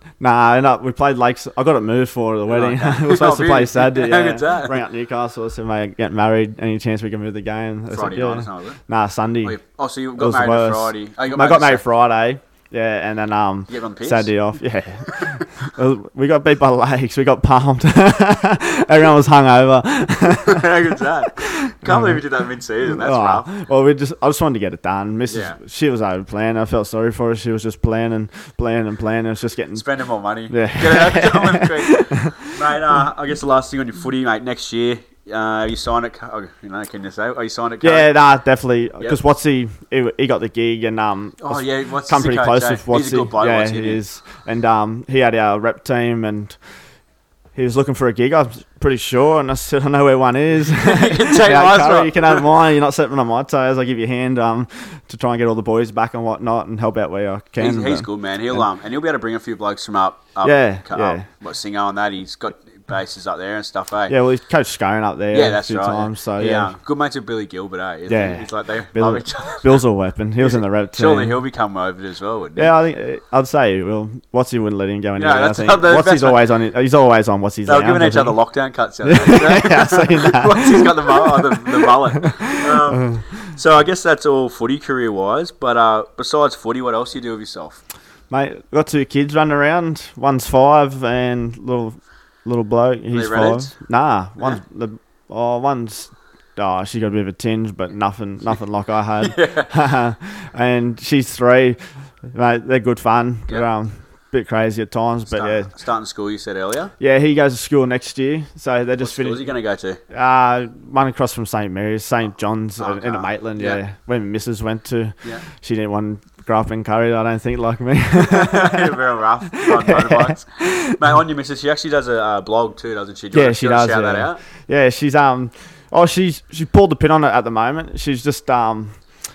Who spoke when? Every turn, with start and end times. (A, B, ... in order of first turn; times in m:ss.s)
0:00.2-0:09.6 A
0:02.5-0:04.8 B
0:07.9-0:08.8 B
0:09.4-0:11.8 B
0:10.2-0:20.7 A
0:13.7-0:14.3 B
0:15.1-0:15.4 B
0:20.4-0:23.5 B
0:21.4-0:22.2 A
0:22.9-0:29.8 A
0:25.3-0:25.6 B
0:29.8-0:38.1 B
0:30.5-0:32.4 A
0:37.8-0:46.6 A
0:41.4-0:44.0 B
0:47.6-0:58.6 A
0:50.8-0:52.4 B
0:57.6-1:04.2 B
1:00.4-1:01.3 A
1:04.1-1:06.7 A
1:05.3-1:09.8 B
1:08.1-1:11.4 A
1:10.4-1:12.7 B
1:12.6-1:18.4 A
1:15.2-1:16.4 B
1:17.7-1:27.8 B
1:19.0-1:23.2 A
1:28.3-1:45.7 A
1:33.1-1:33.7 B
1:39.2-1:39.7 B
1:45.3-1:46.9 B
1:47.0-1:49.4 A
1:49.0-1:50.0 B
1:50.1-1:59.0 A
1:52.8-1:53.8 B
1:58.2-2:04.4 B
1:59.6-2:01.0 A
2:03.3-2:09.0 A